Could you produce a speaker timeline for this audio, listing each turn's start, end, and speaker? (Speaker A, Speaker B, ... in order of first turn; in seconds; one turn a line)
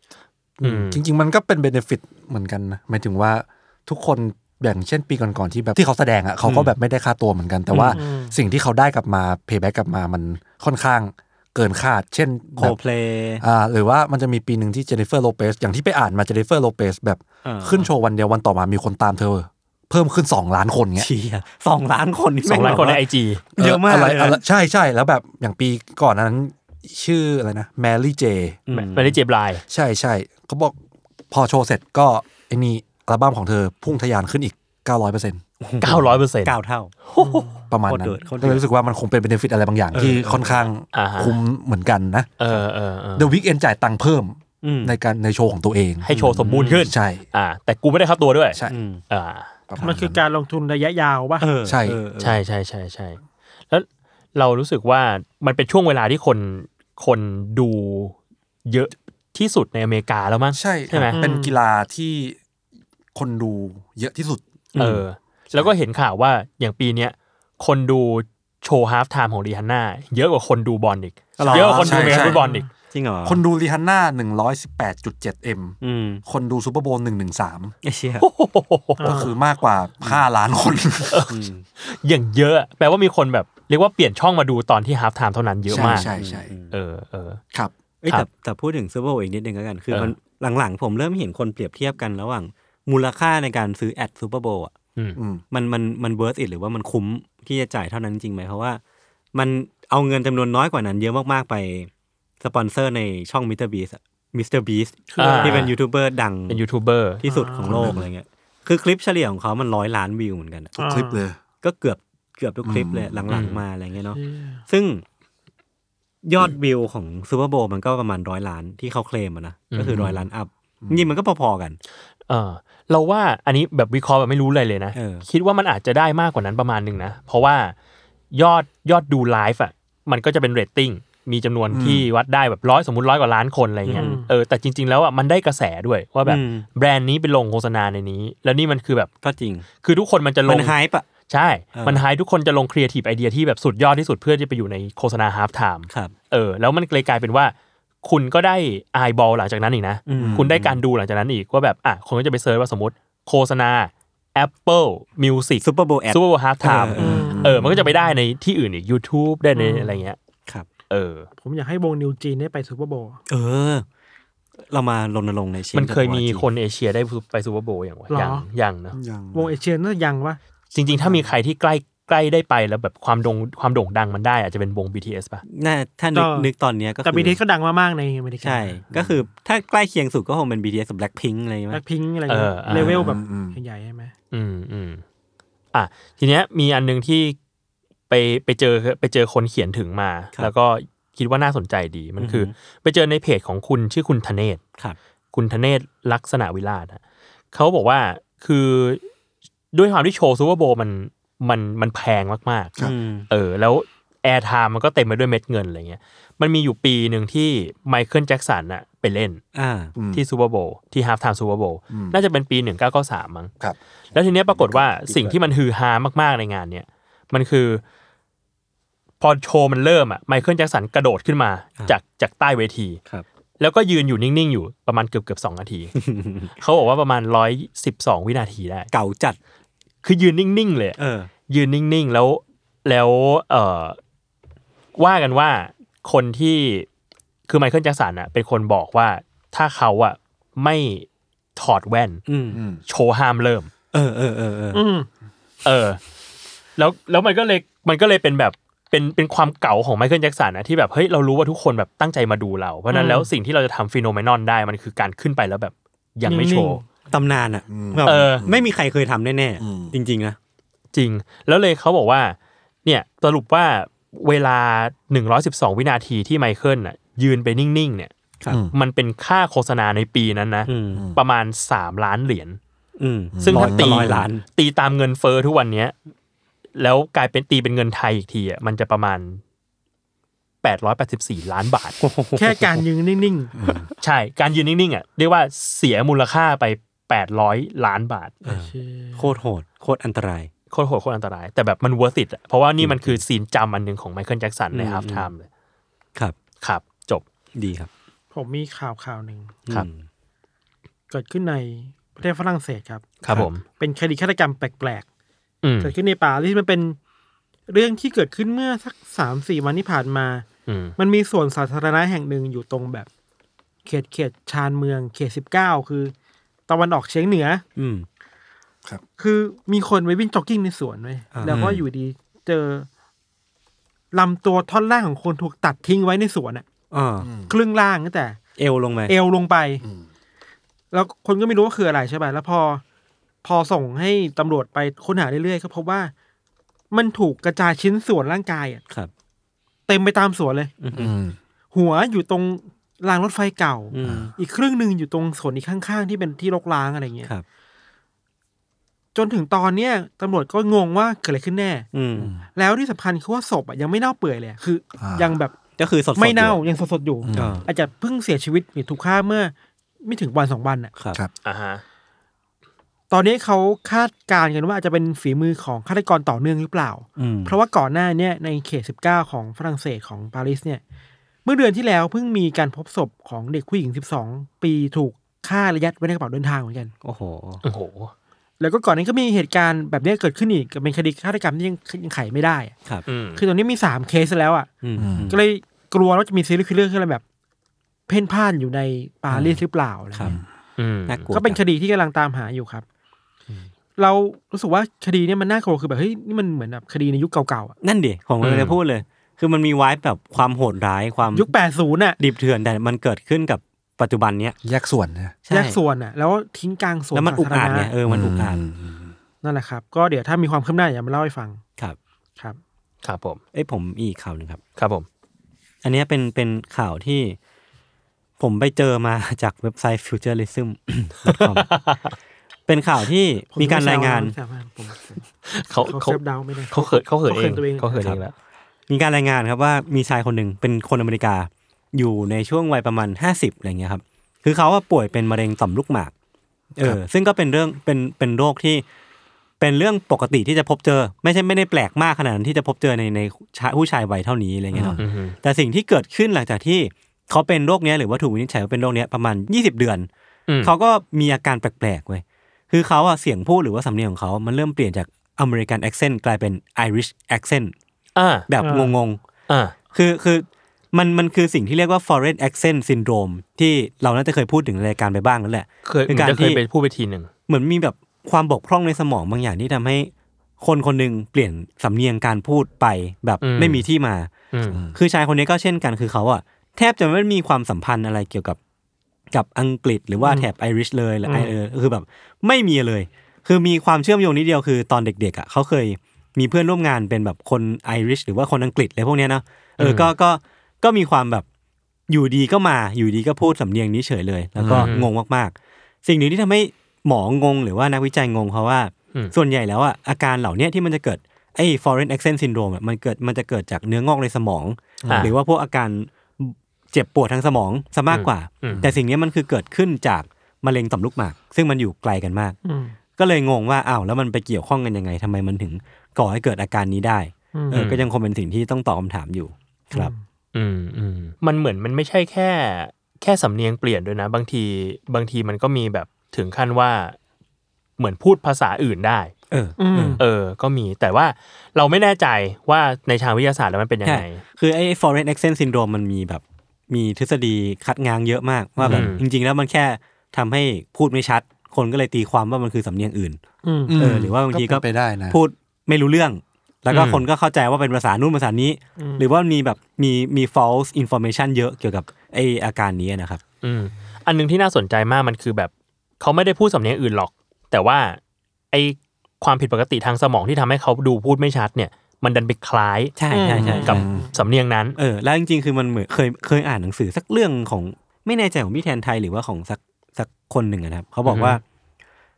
Speaker A: 0.6-12.8
Speaker B: 0.6-1.0
Speaker C: 6.4-6.7
Speaker C: 7.7-8.0
Speaker D: 7.9-8.3
Speaker C: 12.6-13.4
Speaker A: 13.4-21.1
Speaker C: 17.4-17.9
Speaker C: 21.0-23.0
Speaker B: 22.4-23.4
Speaker C: 23.6-24.4
Speaker A: 23.6-28.6
Speaker C: 28.7-29.2
Speaker B: 28.7-29.6
Speaker A: 29.7-30.7
Speaker A: 31.3-35.4
Speaker C: 35.6-36.9
Speaker B: 35.8-36.5
Speaker B: 37.1-37.5
Speaker D: 37.2-37.7
Speaker A: 37.7-42.3
Speaker C: 37.9-38.6
Speaker C: 39.9-40.7
Speaker B: 40.9-41.4
Speaker B: 42.4-43.3
Speaker A: 43.1-46.1
Speaker C: 44.6-45.0
Speaker B: 46.0-48.6
Speaker C: 46.1-46.9
Speaker A: 46.7-47.2
Speaker C: 48.7-49.0
Speaker B: 49.1-49.5
Speaker A: 49.7-50.2
Speaker D: 49.8-51.5
Speaker C: 51.4-52.4
Speaker A: 51.6-52.0
Speaker B: 52.2-61.2
Speaker A: 60.5-62.4
Speaker D: 61.1-61.6
Speaker A: 63.1-64.4
Speaker C: 64.7-65.0
Speaker B: 64.8-72.7
Speaker C: 71.4-72.4
Speaker A: 71.5-72.4
Speaker D: 72.3-72.7
Speaker C: 72.9-73.4
Speaker A: 73.2-77.7
Speaker C: 75.8-76.2
Speaker C: 77.8-78.3
Speaker B: 78.2-79.2
Speaker D: 79.0-79.3
Speaker A: 79.0-81.2
Speaker B: 81.1-86.1
Speaker C: 81.3-81.6
Speaker A: 85.7-86.5
Speaker C: 85.7-86.7
Speaker B: 86.7-87.4
Speaker C: 88.0-94.7
Speaker A: 95.2-95.4
Speaker C: 95.5-98.8
Speaker C: 99.3-101.9
Speaker C: 102.4-106.6
Speaker D: 105.1-105.7
Speaker B: 105.2-105.7
Speaker B: 106.5-107.2
Speaker C: 107.2-110.7
Speaker D: 107.2-107.9
Speaker A: 107.7-108.1
Speaker D: 110.8-111.2
Speaker A: 110.8-111.4
Speaker C: 111.6-115.0
Speaker A: 112.6-113.2
Speaker B: 113.3-113.6
Speaker D: 114.1-114.6
Speaker C: 116.2-121.8
Speaker B: 119.7-120.2
Speaker A: 120.8-121.1
Speaker B: 122.3-127.7
Speaker C: 124.9-125.2
Speaker B: 128.3-139.1
Speaker A: 131.7-132.1
Speaker C: 133.8-134.2
Speaker D: 133.9-134.3
Speaker C: 136.2-136.7
Speaker C: 139.2-139.7
Speaker B: 139.8-140.7
Speaker C: 140.4-141.1
Speaker B: 141.3-160.2
Speaker C: 141.7-142.0
Speaker C: 150.1-150.7
Speaker A: 150.2-150.7
Speaker C: 155.6-157.3
Speaker A: 157.0-157.8
Speaker D: 157.0-158.2
Speaker D: 159.5-160.0
Speaker B: 160.9-161.3
Speaker D: 161.4-163.2
Speaker C: 163.3-163.8
Speaker C: 164.7-166.4
Speaker B: 165.7-168.9
Speaker D: 168.1-168.4
Speaker A: 168.9-169.5
Speaker D: 169.3-170.4
Speaker B: 170.7-175.4
Speaker C: 175.4-177.4
Speaker D: 176.1-176.5
Speaker D: 177.0-178.8
Speaker C: 178.4-181.8
Speaker A: 178.9-179.2
Speaker D: 181.7-184.1
Speaker B: 182.3-183.0
Speaker A: 182.7-183.6
Speaker B: 184.3-185.0
Speaker B: 185.7-187.3
Speaker B: 188.1-194.6
Speaker C: 192.2-192.5
Speaker B: 195.3-197.0
Speaker B: 197.5-199.0
Speaker B: 199.7-202.7
Speaker C: 202.8-203.3
Speaker B: 203.3-209.4
Speaker C: 209.5-209.9
Speaker A: 209.9-210.2
Speaker B: 210.1-213.5
Speaker A: 211.9-212.2
Speaker B: 214.1-217.8
Speaker C: 214.6-215.3
Speaker B: 219.2-223.0
Speaker B: 223.6-225.9
Speaker C: 225.9-226.6
Speaker B: 226.6-228.9
Speaker C: 228.9-229.4
Speaker B: 230.0-231.0
Speaker C: 231.0-231.3
Speaker B: 231.5-234.0
Speaker B: 235.0-236.9
Speaker B: 237.5-242.2
Speaker C: 242.3-242.6
Speaker A: 242.5-242.8
Speaker B: 242.8-243.7
Speaker C: 243.9-244.8
Speaker D: 244.7-245.1
Speaker B: 245.6-246.0
Speaker B: 246.8-256.8
Speaker D: 252.9-253.3
Speaker D: 256.2-256.8
Speaker C: 257.1-260.4
Speaker A: 257.7-258.6
Speaker B: 258.0-258.4
Speaker A: 259.6-259.9
Speaker B: 260.9-268.1
Speaker A: 268.5-268.7
Speaker B: 268.7-272.6
Speaker C: 270.7-271.1
Speaker C: 273.0-274.4
Speaker A: 273.4-274.3
Speaker B: 273.4-275.9
Speaker B: 276.8-279.4
Speaker B: 280.6-282.0
Speaker C: 282.0-282.8
Speaker D: 282.4-283.5
Speaker A: 283.6-283.9
Speaker B: 284.0-288.3
Speaker C: 288.4-290.5
Speaker D: 288.4-289.4
Speaker B: 290.7-295.5
Speaker C: 292.8-293.2
Speaker C: 294.7-295.3
Speaker B: 296.6-297.2
Speaker C: 297.5-297.9
Speaker D: 298.3-299.6
Speaker C: 299.7-300.0
Speaker D: 301.1-303.1
Speaker B: 303.2-303.6
Speaker D: 303.7-305.0
Speaker B: 305.6-305.9
Speaker D: 305.8-307.0
Speaker D: 307.7-310.4
Speaker B: 310.7-310.9
Speaker D: 311.0-313.1
Speaker D: 313.8-316.1
Speaker D: 316.7-317.6
Speaker C: 317.8-318.1
Speaker D: 319.2-322.9
Speaker C: 321.3-321.7
Speaker A: 321.5-321.8
Speaker D: 324.1-326.6
Speaker C: 326.9-327.3
Speaker A: 327.2-327.5
Speaker D: 327.5-328.4
Speaker C: 328.6-329.1
Speaker D: 329.1-329.8
Speaker D: 330.9-332.8
Speaker D: 333.4-336.1
Speaker D: 336.9-338.8
Speaker D: 339.9-340.7
Speaker C: 340.8-341.1
Speaker A: 340.9-341.4
Speaker D: 341.7-347.3
Speaker C: 343.9-344.3
Speaker A: 344.0-344.3
Speaker D: 349.1-351.9
Speaker C: 351.9-352.3
Speaker A: 352.2-352.4
Speaker D: 352.5-355.5
Speaker A: 355.0-355.3
Speaker C: 355.8-356.6
Speaker D: 356.1-359.5
Speaker A: 357.2-357.6
Speaker C: 357.4-357.6
Speaker D: 360.0-360.9
Speaker B: 361.4-361.8
Speaker D: 363.1-370.8
Speaker C: 367.2-367.6
Speaker D: 371.4-376.9
Speaker C: 377.0-377.6
Speaker B: 377.6-378.1
Speaker D: 378.6-382.7
Speaker B: 383.1-383.4
Speaker D: 383.4-384.7
Speaker C: 384.8-385.4
Speaker A: 385.0-385.4
Speaker D: 385.3-387.2
Speaker D: 388.1-390.4
Speaker C: 389.3-389.6
Speaker B: 390.8-391.3
Speaker C: 391.1-391.6
Speaker D: 391.3-392.8
Speaker D: 394.0-397.8
Speaker C: 397.8-401.5
Speaker B: 398.4-398.8
Speaker D: 401.3-402.2
Speaker C: 402.2-404.6
Speaker A: 404.6-405.3
Speaker C: 405.5-405.8
Speaker D: 405.5-407.9
Speaker C: 407.1-408.6
Speaker A: 408.1-409.1
Speaker D: 409.4-411.6
Speaker B: 413.0-413.4
Speaker C: 413.5-414.6
Speaker B: 414.8-415.1
Speaker C: 415.8-417.4
Speaker C: 418.4-421.7
Speaker B: 421.2-422.1
Speaker C: 422.7-424.4
Speaker D: 423.5-428.2
Speaker B: 425.4-426.2
Speaker B: 426.7-428.3
Speaker C: 428.9-436.1
Speaker C: 436.8-438.8
Speaker C: 439.6-450.1
Speaker A: 444.7-445.0
Speaker B: 445.0-445.4
Speaker B: 450.5-450.7
Speaker C: 450.6-457.7
Speaker B: 458.1-458.4
Speaker C: 458.5-459.2
Speaker D: 458.6-458.9
Speaker B: 459.5-459.7
Speaker C: 459.9-466.6
Speaker B: 465.9-467.3
Speaker C: 467.5-470.1
Speaker C: 470.6-474.3
Speaker B: 473.4-473.8
Speaker B: 474.5-474.8
Speaker A: 474.7-474.9
Speaker C: 474.9-478.6
Speaker C: 479.3-491.4
Speaker D: 480.2-480.5
Speaker D: 481.2-481.5
Speaker B: 489.8-490.1
Speaker C: 492.1-495.5
Speaker A: 494.6-494.9
Speaker B: 494.7-495.1
Speaker C: 496.0-512.6
Speaker A: 505.0-505.3
Speaker B: 505.1-505.3
Speaker B: 508.1-508.8
Speaker A: 508.7-508.9
Speaker D: 512.6-513.0
Speaker C: 513.2-520.1
Speaker D: 517.5-517.8
Speaker B: 517.7-518.0
Speaker D: 519.9-520.2
Speaker B: 520.5-527.2
Speaker B: 528.0-529.3
Speaker C: 529.5-530.2
Speaker D: 529.8-530.2
Speaker B: 530.2-534.4
Speaker C: 534.0-543.4
Speaker A: 538.8-539.1
Speaker B: 538.8-539.2
Speaker D: 543.6-544.0
Speaker A: 543.9-545.4
Speaker C: 544.0-553.4
Speaker B: 546.9-547.2
Speaker D: 549.0-549.2
Speaker B: 553.6-558.2
Speaker B: 558.7-563.1
Speaker C: 563.2-564.1
Speaker D: 563.3-564.3
Speaker A: 563.6-564.3
Speaker B: 563.7-565.0
Speaker C: 565.0-571.6
Speaker B: 571.2-571.6